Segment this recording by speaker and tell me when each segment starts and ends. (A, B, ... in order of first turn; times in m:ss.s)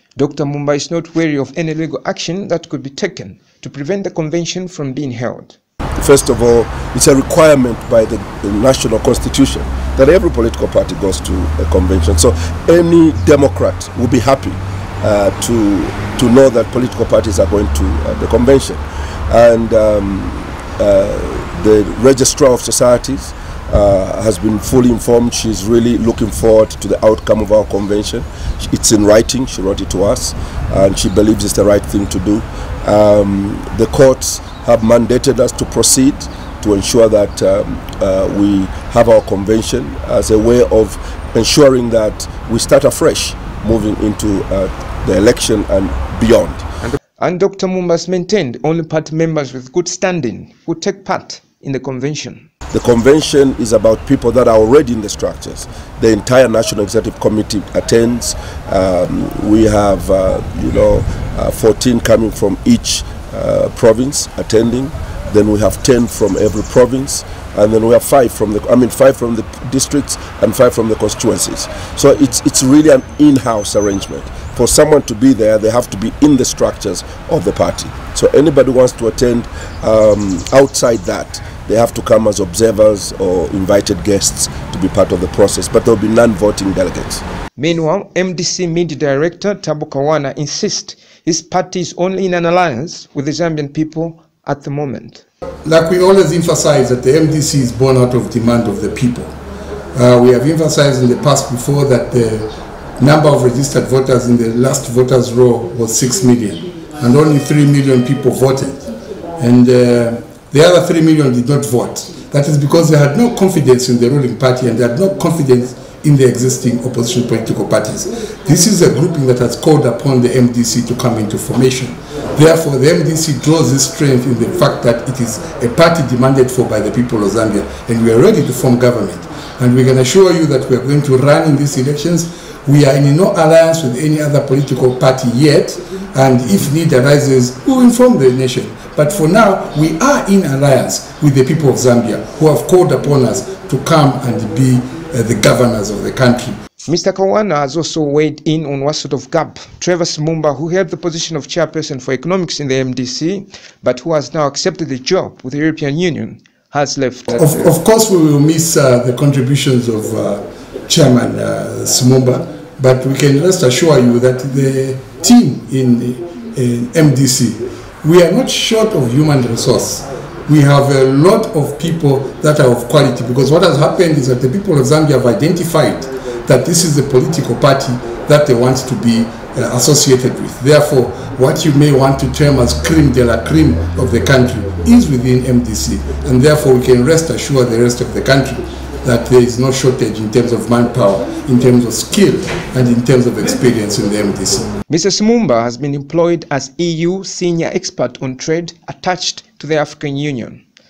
0:00.2-0:05.6 A
0:06.0-0:46.6 B
0:46.9-0:52.5 A
0:52.7-1:27.2 B
1:27.6-1:35.2 A
1:35.6-1:39.4 C
1:39.9-1:48.8 C
1:49.4-2:26.6 C
2:26.8-2:37.6 A
2:37.4-3:14.7 C
3:14.9-3:20.6 A